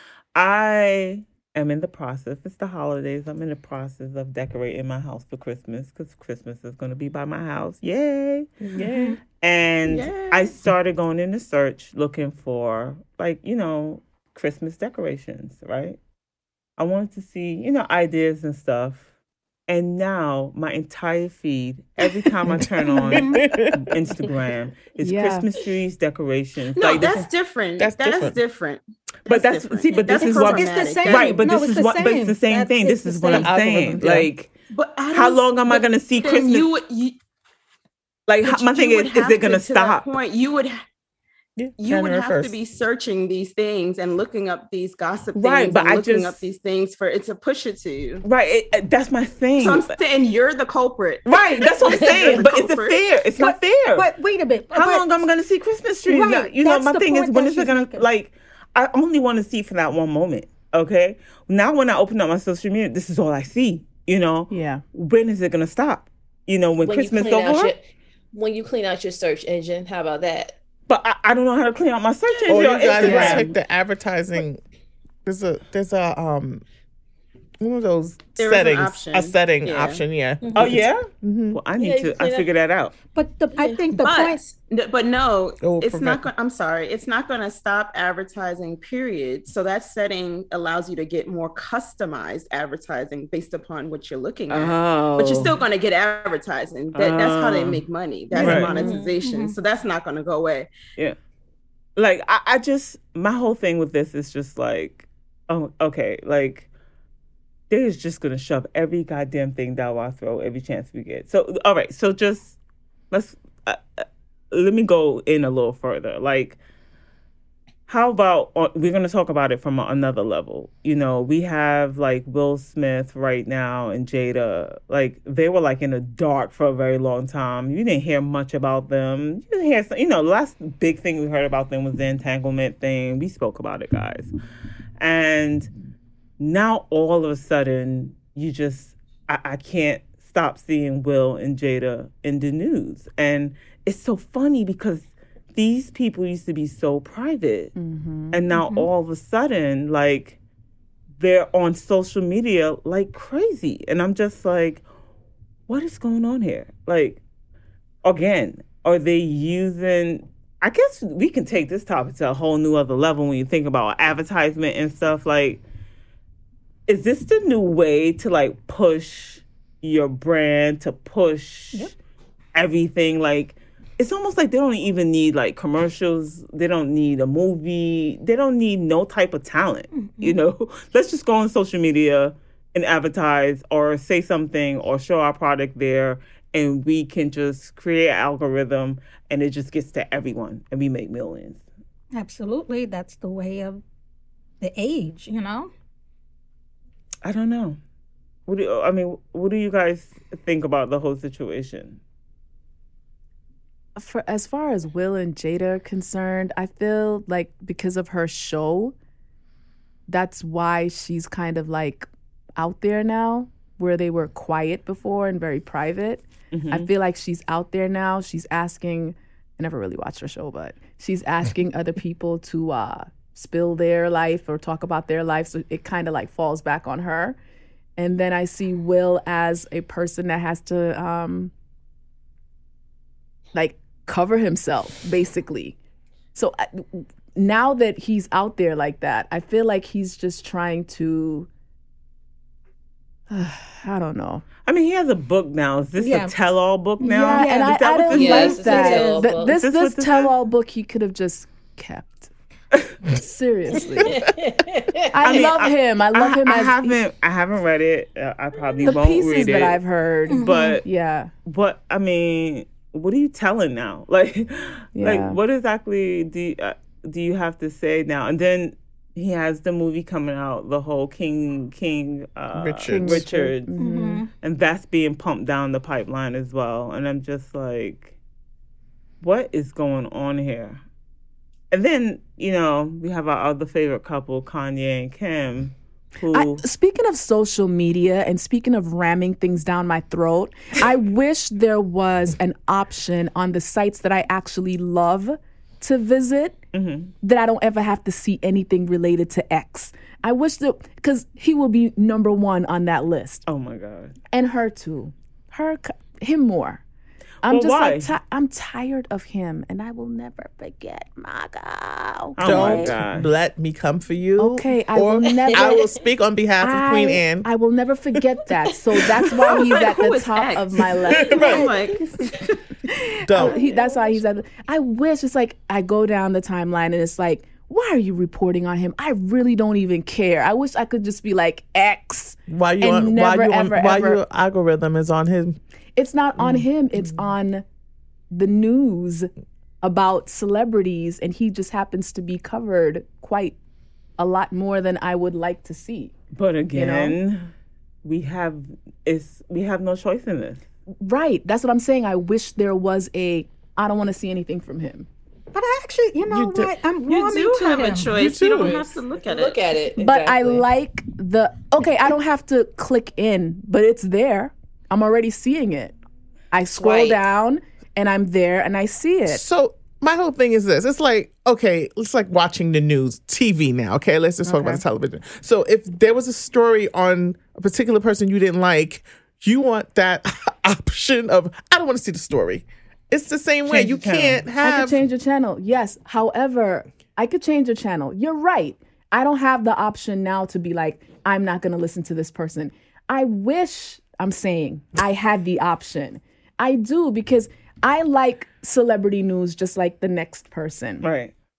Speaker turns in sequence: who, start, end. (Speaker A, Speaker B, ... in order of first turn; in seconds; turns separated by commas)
Speaker A: 0.4-8.5, Speaker B: 8.7-9.2, Speaker A: 9.4-16.0, Speaker C: 9.9-10.7, Speaker A: 16.8-19.1, Speaker A: 19.7-27.3, Speaker B: 22.5-23.8, Speaker D: 22.8-23.5, Speaker E: 25.0-25.5, Speaker C: 26.7-31.3, Speaker B: 27.8-28.4, Speaker A: 29.3-34.5, Speaker D: 30.2-33.6, Speaker B: 33.3-34.3, Speaker C: 34.7-37.2, Speaker A: 35.1-36.7, Speaker A: 38.3-40.1, Speaker C: 38.4-40.9, Speaker B: 41.6-42.5, Speaker C: 41.8-48.2, Speaker A: 45.4-46.5, Speaker A: 48.2-50.0, Speaker C: 49.6-53.1, Speaker A: 51.3-54.1, Speaker F: 51.8-52.7, Speaker D: 53.4-55.1, Speaker A: 54.7-67.7, Speaker D: 56.1-58.1, Speaker E: 64.5-64.8, Speaker F: 66.8-70.6, Speaker A: 70.9-73.5, Speaker B: 72.5-74.6, Speaker E: 73.0-73.5, Speaker B: 75.3-76.6, Speaker B: 77.6-81.6, Speaker C: 78.4-80.0, Speaker F: 80.4-80.7, Speaker A: 80.5-83.0, Speaker F: 81.8-82.5, Speaker D: 83.2-84.5, Speaker F: 83.5-84.2, Speaker C: 84.0-100.7, Speaker B: 85.6-86.3, Speaker A: 94.5-95.6, Speaker A: 96.9-97.8, Speaker D: 98.3-98.7, Speaker A: 98.4-99.0, Speaker E: 98.4-98.9, Speaker F: 98.7-99.3, Speaker D: 99.2-99.6, Speaker A: 102.0-106.7, Speaker A: 107.7-112.6, Speaker A: 113.1-116.6, Speaker A: 117.9-134.3, Speaker A: 135.0-135.7, Speaker A: 136.4-147.8, Speaker E: 147.8-148.4, Speaker A: 148.3-150.4, Speaker D: 148.6-148.9, Speaker A: 151.2-154.8, Speaker A: 155.7-157.2, Speaker A: 158.0-165.6, Speaker A: 166.9-171.9, Speaker A: 172.6-191.6, Speaker D: 179.9-180.4, Speaker D: 192.1-193.8, Speaker D: 194.6-195.7, Speaker A: 197.2-197.8, Speaker A: 198.5-202.0, Speaker E: 203.9-208.9, Speaker E: 210.1-227.4, Speaker A: 216.5-216.9, Speaker E: 228.0-231.5, Speaker E: 233.5-235.8, Speaker E: 236.3-241.5, Speaker E: 243.3-244.4, Speaker A: 244.7-250.3, Speaker D: 246.0-246.3, Speaker D: 247.0-247.6, Speaker E: 247.1-252.3, Speaker F: 248.1-249.6, Speaker E: 253.1-254.2, Speaker F: 254.0-255.2, Speaker E: 255.1-257.0, Speaker A: 255.2-260.9, Speaker E: 258.8-261.3, Speaker D: 260.3-260.8, Speaker A: 261.5-273.8, Speaker E: 264.9-265.4, Speaker B: 272.5-273.3, Speaker E: 272.9-274.2, Speaker D: 273.8-274.3, Speaker A: 274.4-278.1, Speaker A: 279.2-280.8, Speaker A: 281.7-286.6, Speaker E: 286.3-296.6, Speaker A: 296.7-297.1, Speaker E: 297.2-303.4, Speaker A: 303.5-304.1, Speaker E: 304.3-306.8, Speaker E: 307.4-313.0, Speaker A: 307.5-308.1, Speaker A: 312.4-313.3, Speaker B: 312.4-317.5, Speaker E: 314.4-315.9, Speaker F: 315.4-316.0, Speaker E: 316.6-322.2, Speaker F: 319.2-319.6, Speaker C: 319.5-322.6, Speaker F: 321.1-321.5, Speaker B: 321.2-321.7, Speaker E: 322.9-334.2, Speaker B: 323.3-323.6, Speaker F: 323.4-324.3, Speaker B: 332.5-335.6, Speaker E: 336.0-337.6, Speaker B: 336.4-336.7, Speaker E: 338.3-339.3, Speaker E: 339.8-343.6, Speaker E: 344.2-346.1, Speaker A: 346.3-347.5, Speaker E: 346.7-347.2, Speaker A: 348.0-350.6, Speaker E: 351.0-355.1, Speaker D: 355.5-358.7, Speaker B: 356.3-356.8, Speaker C: 357.1-359.7, Speaker F: 358.1-360.7, Speaker B: 358.1-358.8, Speaker E: 359.9-365.9, Speaker E: 366.5-369.4, Speaker F: 366.7-367.2, Speaker B: 369.3-385.0, Speaker E: 374.4-374.8, Speaker A: 383.7-384.4, Speaker E: 384.6-401.1, Speaker A: 401.0-401.3